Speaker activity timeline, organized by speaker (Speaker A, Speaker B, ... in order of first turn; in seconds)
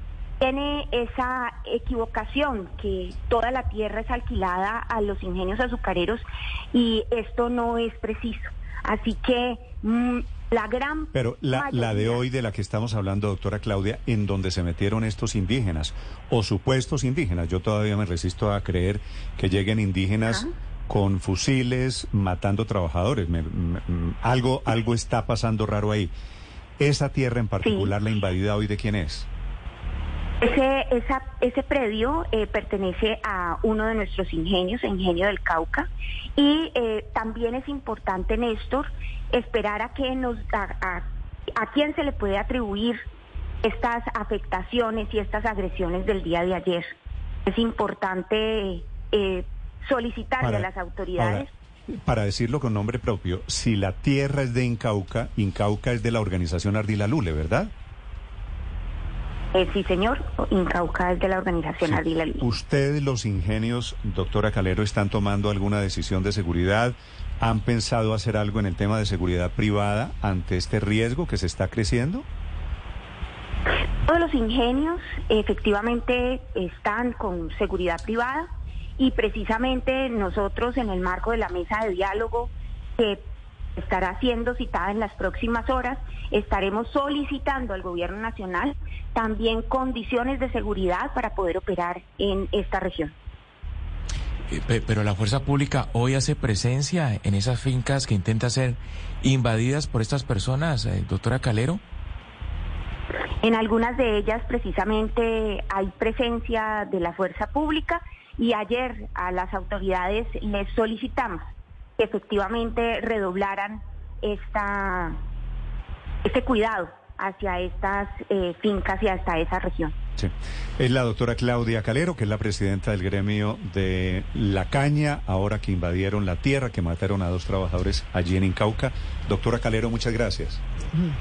Speaker A: 0.4-12.2, 27.6-27.9, 30.4-41.0, 41.6-43.0, 43.6-46.9, 47.5-51.5, 59.5-62.5, 74.1-78.5, 79.0-83.2, 83.8-93.1, 103.4-111.4, 112.0-115.2, 116.2-119.9
Speaker B: 11.1-26.1, 26.8-29.3, 50.4-51.5, 52.0-57.7, 61.8-72.2, 120.2-130.6
Speaker C: 94.5-101.8